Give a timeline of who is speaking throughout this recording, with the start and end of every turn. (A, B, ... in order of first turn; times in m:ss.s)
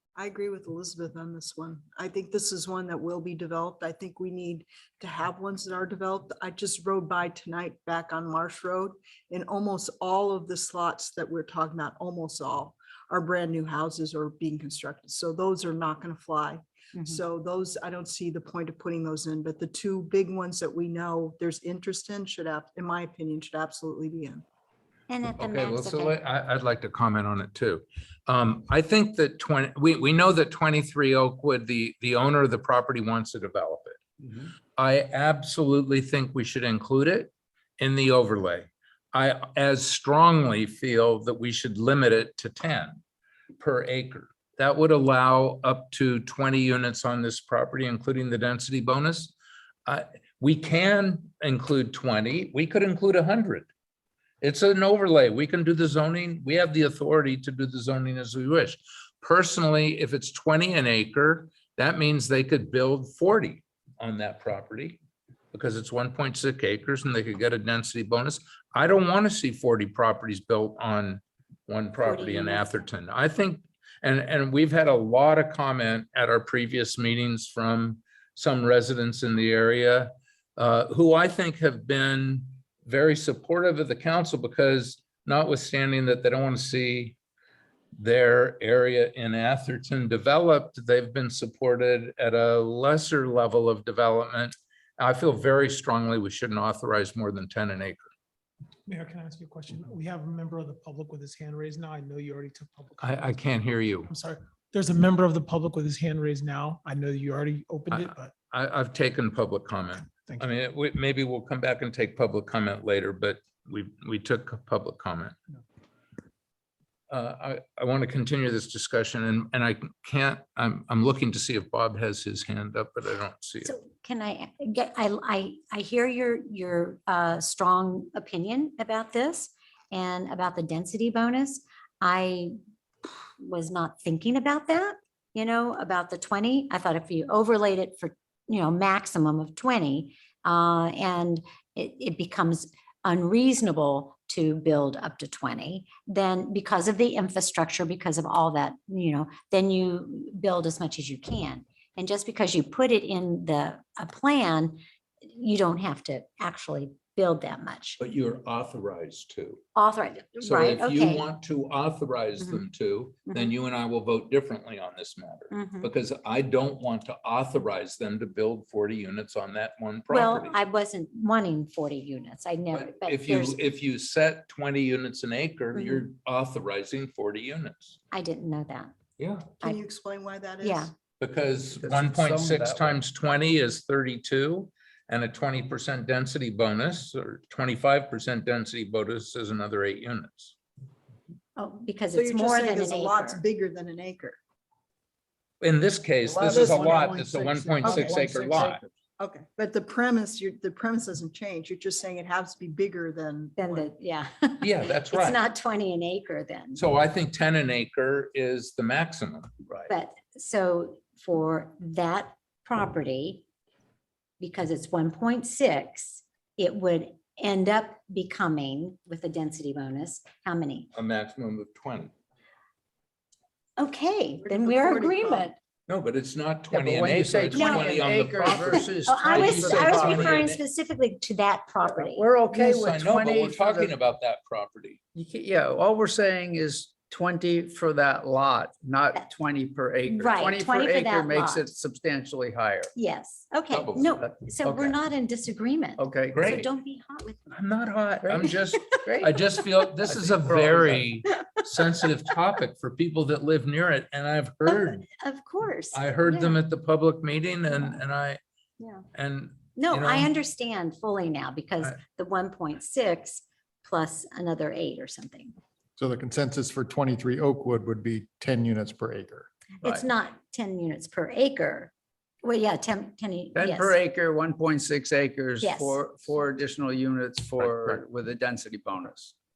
0:00.2-0:24.4 A
0:16.9-0:17.2 B
0:25.1-0:26.2 B
0:25.4-0:34.0 C
0:34.8-0:43.0 C
0:43.6-0:49.3 C
0:49.8-0:53.7 C
0:54.4-1:05.0 C
1:05.5-1:27.2 C
1:12.0-1:12.8 B
1:28.0-1:38.1 C
1:38.9-1:43.4 D
1:43.0-1:44.1 C
1:44.0-1:48.3 D
1:47.9-1:55.3 C
1:50.0-1:50.4 D
1:57.1-2:03.7 C
2:03.6-2:38.0 B
2:38.0-2:39.6 C
2:39.7-2:41.3 B
2:40.4-2:50.6 C
2:45.5-2:45.9 B
2:50.1-2:53.6 B
2:52.7-2:58.0 C
2:55.7-2:56.0 B
2:58.1-2:58.9 B
2:59.2-2:59.6 C
2:59.6-3:00.9 A
3:00.6-3:00.9 B
3:01.2-3:10.5 C
3:01.7-3:03.0 E
3:11.6-3:13.4 B
3:12.1-3:14.4 A
3:15.6-3:18.8 C
3:16.3-3:17.4 E
3:16.4-3:18.8 D
3:17.8-3:18.1 A
3:18.1-3:18.6 E
3:19.2-3:23.8 A
3:23.6-3:26.8 B
3:24.6-3:25.4 C
3:26.7-3:29.5 C
3:29.9-3:33.4 B
3:34.4-3:40.9 B
3:40.9-3:42.1 C
3:43.8-3:45.6 B
3:44.5-3:45.5 E
3:45.9-3:50.6 C
3:46.7-3:50.5 E
3:47.5-3:52.3 B
3:51.8-3:53.9 E
3:52.5-3:55.0 C
3:55.1-4:02.9 E
4:00.0-4:01.7 B
4:03.0-4:07.6 B
4:03.7-4:04.1 C
4:04.2-4:05.0 E
4:06.0-4:06.7 E
4:06.3-4:06.6 C
4:07.5-4:15.0 C
4:08.2-4:09.3 E
4:10.1-4:11.1 E
4:14.7-4:16.6 B
4:15.9-4:18.4 C
4:19.1-4:20.3 C
4:19.8-4:25.5 B
4:26.0-4:29.5 F
4:29.8-4:31.9 B
4:32.4-4:34.0 B
4:33.5-4:39.3 E
4:35.6-4:36.0 B
4:37.6-4:38.0 C